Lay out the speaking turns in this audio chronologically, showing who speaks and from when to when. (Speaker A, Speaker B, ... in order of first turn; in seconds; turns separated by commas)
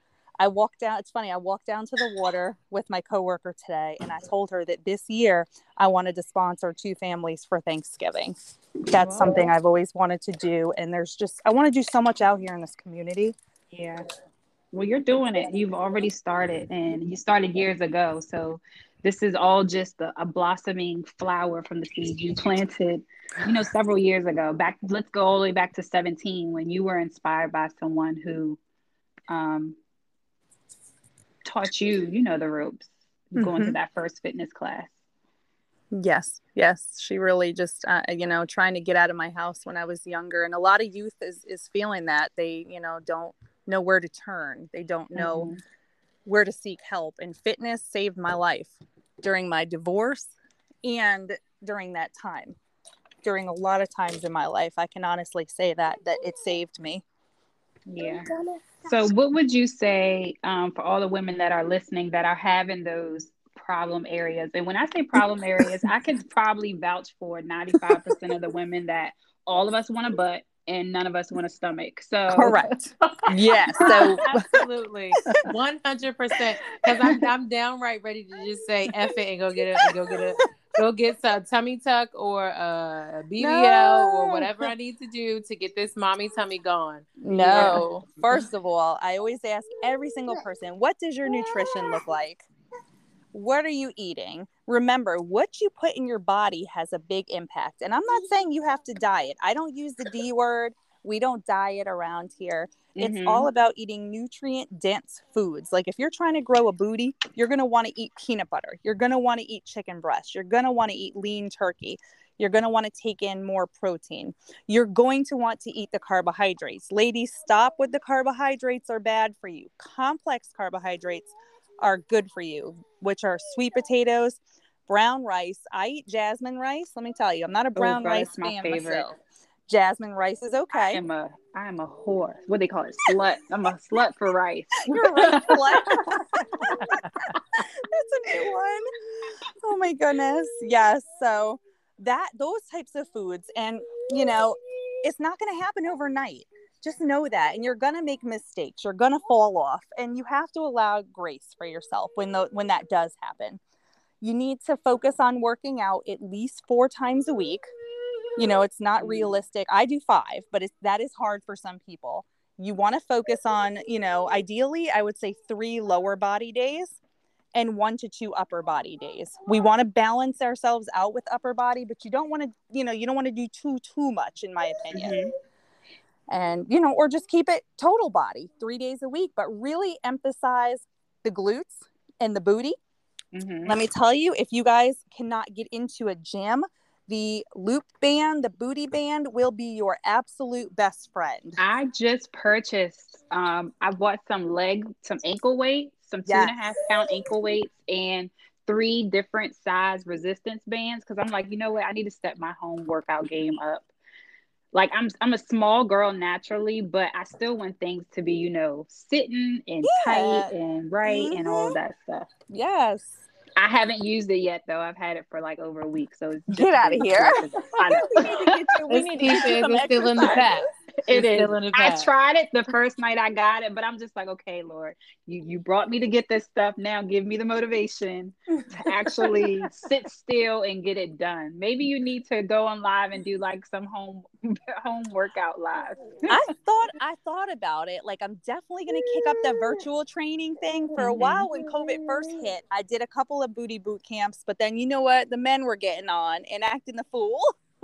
Speaker A: 0.4-8.3, Speaker A: 8.9-13.4, Speaker B: 8.9-9.5, Speaker B: 13.7-14.1, Speaker B: 14.7-28.6, Speaker B: 29.3-29.8, Speaker B: 31.4-34.9, Speaker A: 33.4-33.8, Speaker A: 35.9-45.5, Speaker B: 45.1-45.6, Speaker A: 46.3-52.6, Speaker A: 53.2-57.0, Speaker B: 57.9-58.3, Speaker B: 58.8-72.7, Speaker A: 72.3-74.4, Speaker C: 73.8-87.8, Speaker B: 73.8-74.2, Speaker A: 83.4-84.7, Speaker A: 87.2-92.5, Speaker B: 87.3-87.9, Speaker A: 93.3-129.2, Speaker B: 103.0-103.5, Speaker B: 127.8-129.1, Speaker A: 129.7-131.1, Speaker B: 130.9-136.7, Speaker A: 134.8-138.9, Speaker C: 136.7-137.3, Speaker A: 139.6-153.6, Speaker A: 154.2-157.7, Speaker A: 158.4-167.0, Speaker B: 159.0-159.3, Speaker A: 167.5-175.2, Speaker B: 174.9-175.3, Speaker A: 176.3-182.8, Speaker B: 183.3-183.8, Speaker A: 183.7-191.6, Speaker B: 191.6-203.9, Speaker A: 196.3-196.6, Speaker B: 204.7-212.3, Speaker A: 209.8-210.5, Speaker A: 211.0-211.8, Speaker A: 212.5-213.2, Speaker B: 213.6-218.8, Speaker A: 216.5-220.6, Speaker C: 218.9-222.1, Speaker B: 221.0-236.4, Speaker A: 229.0-229.5, Speaker A: 236.3-247.5, Speaker B: 241.0-241.5